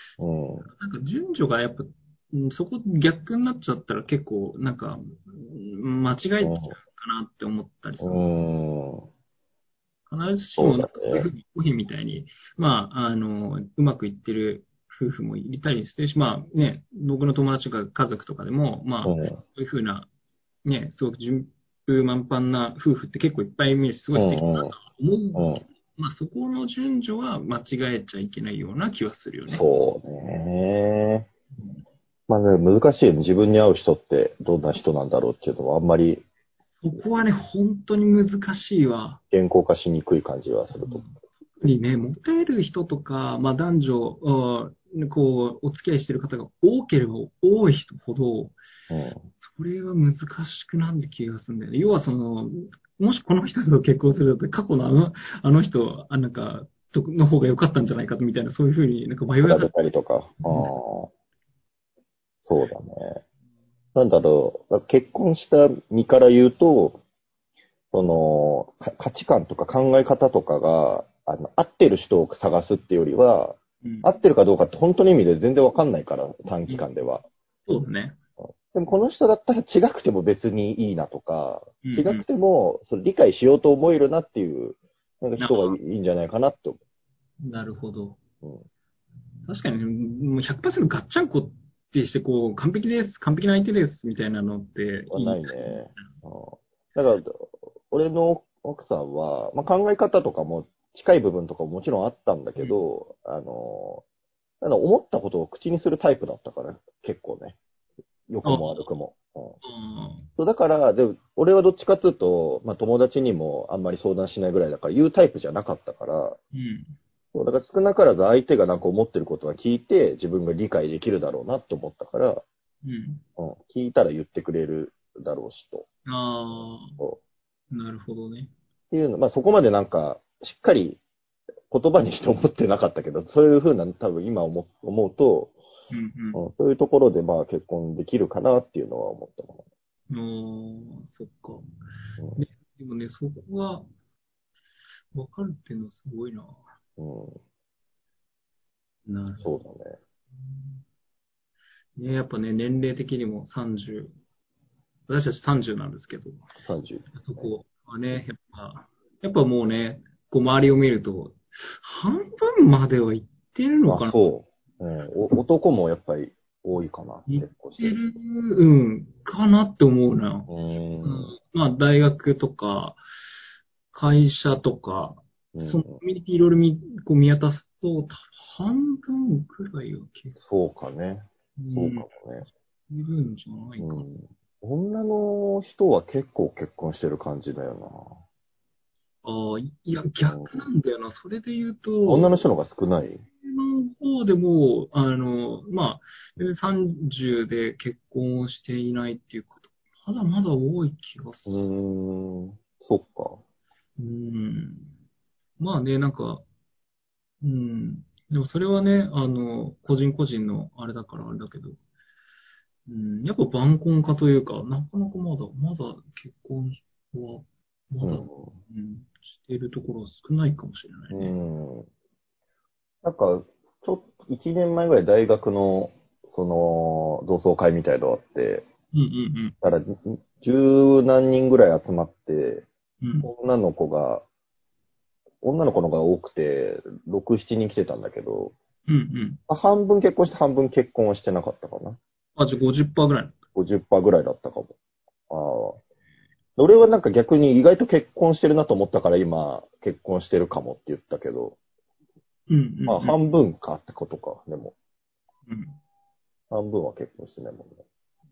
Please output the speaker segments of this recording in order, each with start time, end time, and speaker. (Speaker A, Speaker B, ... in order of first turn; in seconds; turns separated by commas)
Speaker A: 0.2-0.7, Speaker B: 0.6-8.2, Speaker A: 6.4-6.8, Speaker A: 8.0-9.1, Speaker B: 10.1-20.1, Speaker A: 10.6-11.2, Speaker A: 19.0-19.4, Speaker B: 20.6-29.6, Speaker A: 24.1-24.7, Speaker A: 25.4-25.6, Speaker A: 29.5-31.3, Speaker A: 32.3-36.2, Speaker B: 36.8-39.2, Speaker A: 39.3-41.0, Speaker B: 40.8-48.6, Speaker A: 48.9-49.2, Speaker B: 49.4-59.7, Speaker A: 59.4-61.1, Speaker B: 60.4-60.7, Speaker A: 62.4-63.2, Speaker A: 63.9-67.0, Speaker A: 67.9-77.2, Speaker B: 73.8-74.1, Speaker B: 77.7-78.2, Speaker A: 78.4-86.8, Speaker B: 81.8-82.2, Speaker B: 85.4-85.8, Speaker B: 87.4-88.2, Speaker B: 89.5-96.1, Speaker A: 95.1-104.0, Speaker A: 104.6-107.6, Speaker A: 108.3-109.6, Speaker B: 108.4-108.9, Speaker B: 109.6-110.3, Speaker A: 110.4-116.4, Speaker B: 116.5-116.9, Speaker A: 117.3-122.4, Speaker B: 122.8-123.2, Speaker A: 123.4-125.9, Speaker B: 126.0-127.0, Speaker B: 127.7-128.5, Speaker A: 128.9-131.0, Speaker A: 131.7-135.6, Speaker B: 135.9-136.4, Speaker A: 136.3-139.6, Speaker B: 140.1-141.7, Speaker B: 142.3-143.8, Speaker B: 145.1-146.6, Speaker A: 147.0-147.4, Speaker B: 149.1-149.5, Speaker A: 149.4-150.0, Speaker B: 150.5-150.8, Speaker B: 152.0-154.1, Speaker B: 155.1-156.5, Speaker A: 156.6-157.5, Speaker B: 157.1-164.2, Speaker A: 163.9-168.0, Speaker B: 167.3-170.5, Speaker A: 170.5-171.3, Speaker B: 171.0-173.0, Speaker B: 173.9-180.4, Speaker A: 175.5-176.0, Speaker A: 180.4-182.5, Speaker B: 181.6-182.1, Speaker B: 182.9-184.0, Speaker A: 183.8-188.2, Speaker B: 189.2-192.4, Speaker A: 190.2-190.7, Speaker A: 192.1-193.2, Speaker B: 193.4-201.8, Speaker A: 201.5-203.4, Speaker B: 204.0-204.9, Speaker B: 205.6-206.4, Speaker B: 207.4-211.8, Speaker B: 212.9-221.3, Speaker A: 218.0-218.5, Speaker A: 221.1-221.9, Speaker A: 223.0-228.6, Speaker B: 228.9-229.5, Speaker A: 229.6-232.7, Speaker B: 233.0-233.3, Speaker A: 233.2-234.2, Speaker A: 235.4-238.5, Speaker B: 238.9-239.4, Speaker A: 239.5-242.0, Speaker B: 242.3-243.3, Speaker A: 243.5-244.8, Speaker A: 245.3-245.8, Speaker A: 246.6-251.6, Speaker B: 252.5-253.2, Speaker A: 252.9-254.7, Speaker B: 255.5-255.8, Speaker A: 256.5-257.8